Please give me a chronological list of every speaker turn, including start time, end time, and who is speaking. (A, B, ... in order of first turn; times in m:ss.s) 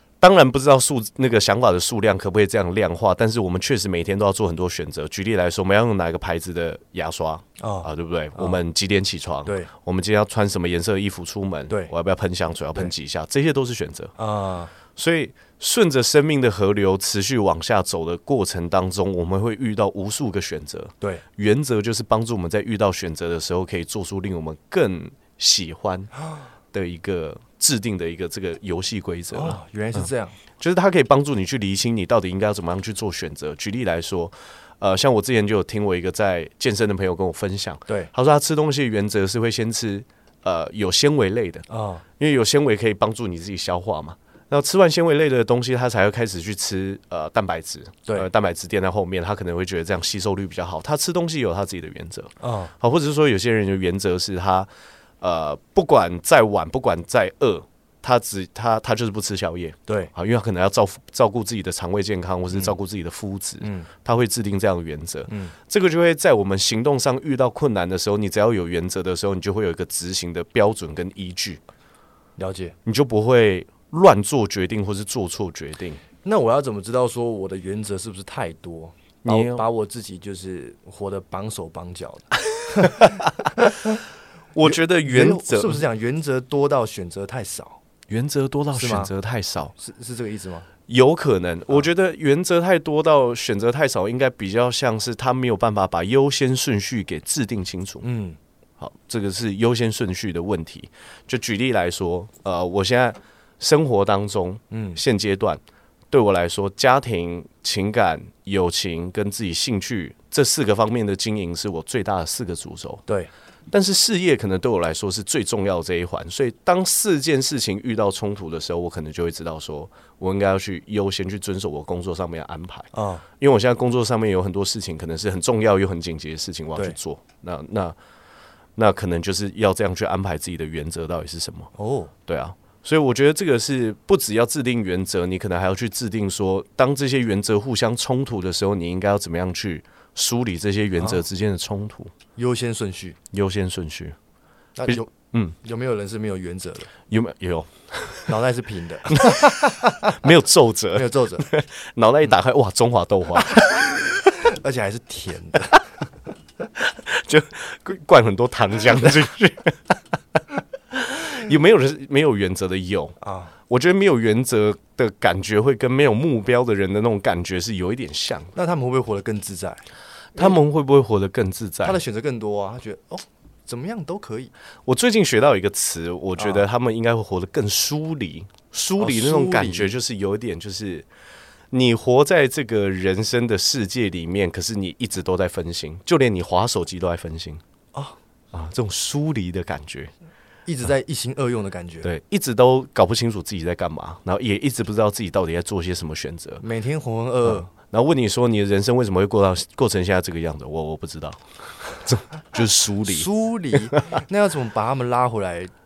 0:00.2-0:14.1 A
0:07.6-0:08.6 B
0:14.2-0:14.7 B
0:14.9-0:26.1 A
0:26.7-0:30.1 A
0:29.3-0:30.4 B
0:30.6-0:41.7 A
0:41.7-0:42.0 B
0:42.2-0:54.7 A
0:52.4-0:52.7 B
0:55.2-1:11.6 A
0:59.9-1:00.1 B
1:03.6-1:03.9 B
1:05.3-1:05.6 B
1:12.4-1:12.8 B
1:12.9-1:16.0 A
1:16.2-1:24.0 B
1:19.2-1:19.6 A
1:22.8-1:23.2 A
1:24.5-1:25.8 A
1:24.6-1:27.8 B
1:28.1-1:29.7 A
1:28.7-1:29.1 B
1:29.8-1:30.7 B
1:30.9-1:38.0 A
1:38.0-1:38.4 B
1:38.8-1:53.0 A
1:44.7-1:45.0 B
1:53.7-2:08.0 A
2:02.9-2:03.2 B
2:08.8-2:11.7 A
2:11.8-2:12.1 B
2:12.3-2:22.1 A
2:22.4-2:23.2 B
2:23.3-2:24.2 A
2:24.8-2:26.9 B
2:24.9-2:25.6 A
2:27.1-2:28.4 A
2:28.3-2:30.2 B
2:29.1-2:33.9 A
2:30.9-2:31.5 B
2:34.3-2:35.8 B
2:36.8-2:40.0 A
2:40.9-2:48.5 A
2:43.2-2:43.5 B
2:48.5-2:49.8 B
2:50.4-2:52.0 A
2:51.8-2:54.5 B
2:54.9-3:01.1 A
2:56.4-2:56.6 B
2:59.0-3:00.0 B
3:01.7-3:07.6 A
3:08.5-3:10.1 A
3:10.7-3:12.1 B
3:12.0-3:16.6 A
3:16.6-3:17.7 B
3:17.4-3:23.3 A
3:23.0-3:25.7 B